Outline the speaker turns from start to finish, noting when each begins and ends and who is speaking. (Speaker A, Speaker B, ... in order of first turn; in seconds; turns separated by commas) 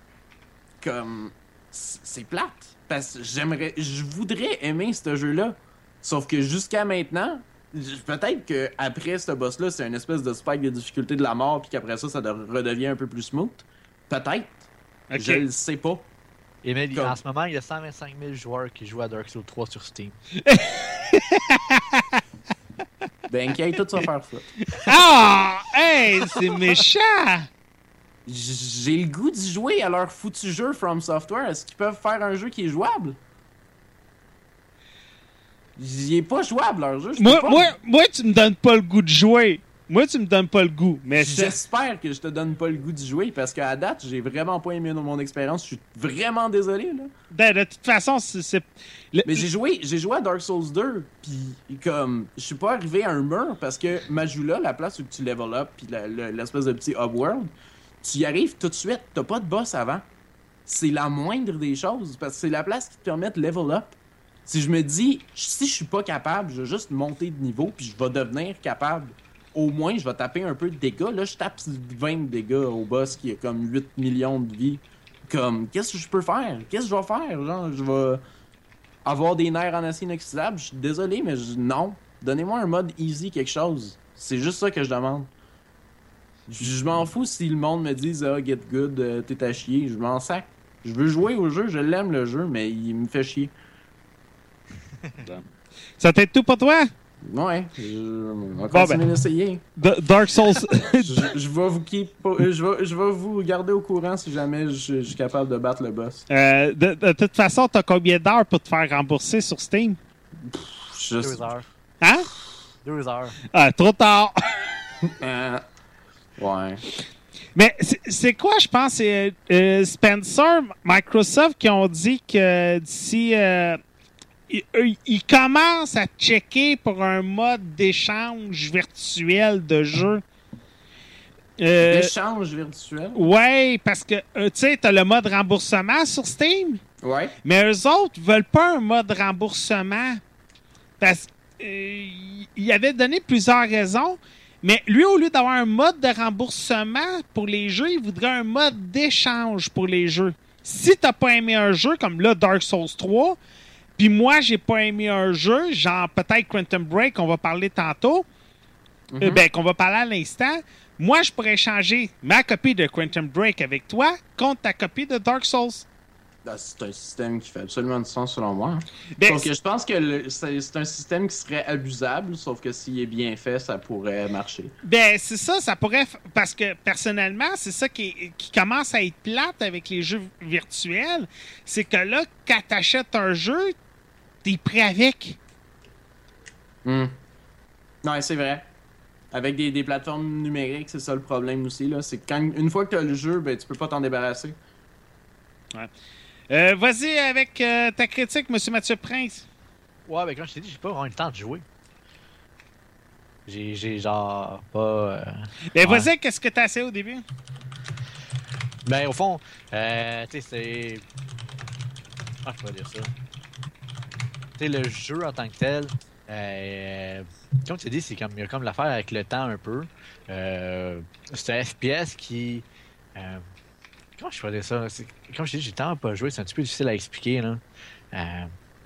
Speaker A: 0.8-16.1, Speaker B: 15.1-15.4, Speaker C: 16.6-20.2, Speaker B: 20.4-22.2, Speaker A: 23.3-24.5, Speaker B: 24.8-27.5, Speaker A: 28.3-33.2, Speaker A: 35.8-37.7, Speaker B: 37.2-41.5, Speaker A: 41.2-47.1, Speaker B: 47.3-49.4, Speaker A: 49.2-57.5, Speaker A: 58.0-60.0, Speaker A: 60.7-64.0, Speaker A: 64.5-78.2, Speaker A: 79.0-85.3, Speaker A: 86.5-93.5, Speaker B: 96.0-96.9, Speaker A: 97.3-99.6, Speaker B: 98.7-99.0, Speaker B: 99.8-101.3, Speaker A: 101.0-106.2, Speaker B: 106.3-110.0, Speaker A: 110.5-111.4, Speaker C: 111.2-111.7, Speaker B: 112.0-112.3, Speaker C: 112.8-113.3, Speaker B: 113.5-114.6, Speaker A: 115.0-115.6, Speaker A: 116.4-116.8, Speaker B: 117.5-123.8, Speaker B: 124.5-130.2, Speaker B: 131.6-132.1, Speaker A: 131.8-133.2, Speaker B: 133.1-136.8, Speaker A: 137.0-137.3, Speaker B: 137.4-140.2, Speaker B: 141.0-153.4, Speaker B: 154.0-158.2, Speaker A: 159.1-159.4, Speaker B: 159.2-165.8, Speaker A: 166.4-174.7, Speaker B: 169.2-169.5, Speaker B: 174.8-183.7, Speaker B: 184.4-185.4, Speaker A: 186.8-187.1, Speaker A: 188.0-188.6, Speaker A: 189.3-194.6, Speaker B: 196.5-199.4, Speaker C: 200.0-201.6, Speaker C: 203.4-206.1, Speaker B: 205.7-207.2, Speaker C: 208.8-211.0, Speaker C: 212.4-213.1, Speaker C: 214.6-223.4, Speaker C: 224.2-228.5